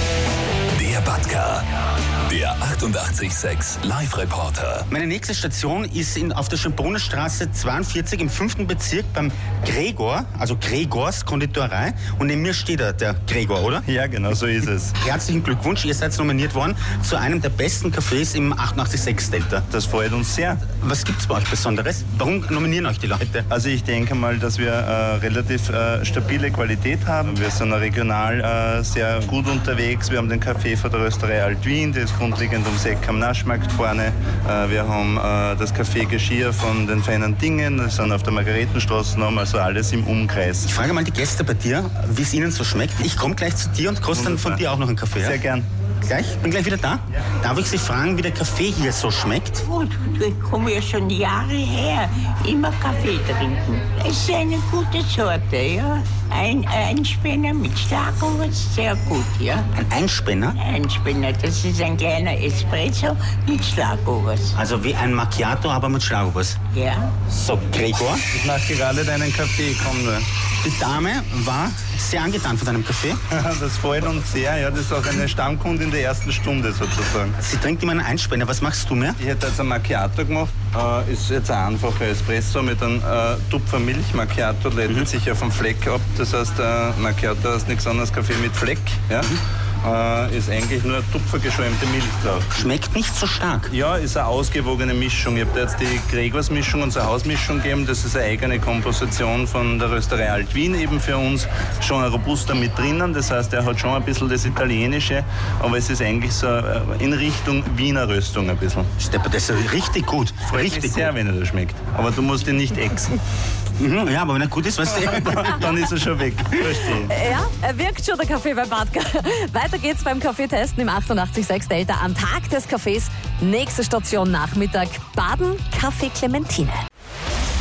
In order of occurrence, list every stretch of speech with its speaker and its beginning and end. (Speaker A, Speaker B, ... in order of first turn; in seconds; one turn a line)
Speaker A: 0.7-1.6
Speaker A: 2.3-4.8
Speaker B: 4.9-13.8
Speaker C: 13.9-15.0
Speaker B: 15.0-19.7
Speaker C: 19.7-20.7
Speaker B: 20.7-23.5
Speaker C: 23.5-40.7
Speaker B: 40.6-45.4
Speaker C: 44.1-44.6
Speaker C: 45.2-45.7
Speaker B: 46.0-49.6
Speaker D: 49.7-59.7
Speaker B: 59.8-60.6
Speaker D: 60.5-64.6
Speaker B: 64.5-66.6
Speaker D: 66.7-67.2
Speaker B: 67.3-68.2
Speaker C: 68.3-70.3
Speaker B: 70.6-73.2
Speaker C: 73.3-77.4
Speaker B: 77.4-79.2
Speaker C: 79.2-92.6
Speaker B: 92.5-93.7
Speaker C: 93.7-108.9
Speaker B: 109.0-111.1
Speaker C: 110.5-113.2
Speaker B: 113.8-115.9
Speaker C: 115.1-117.2
Speaker E: 116.9-126.8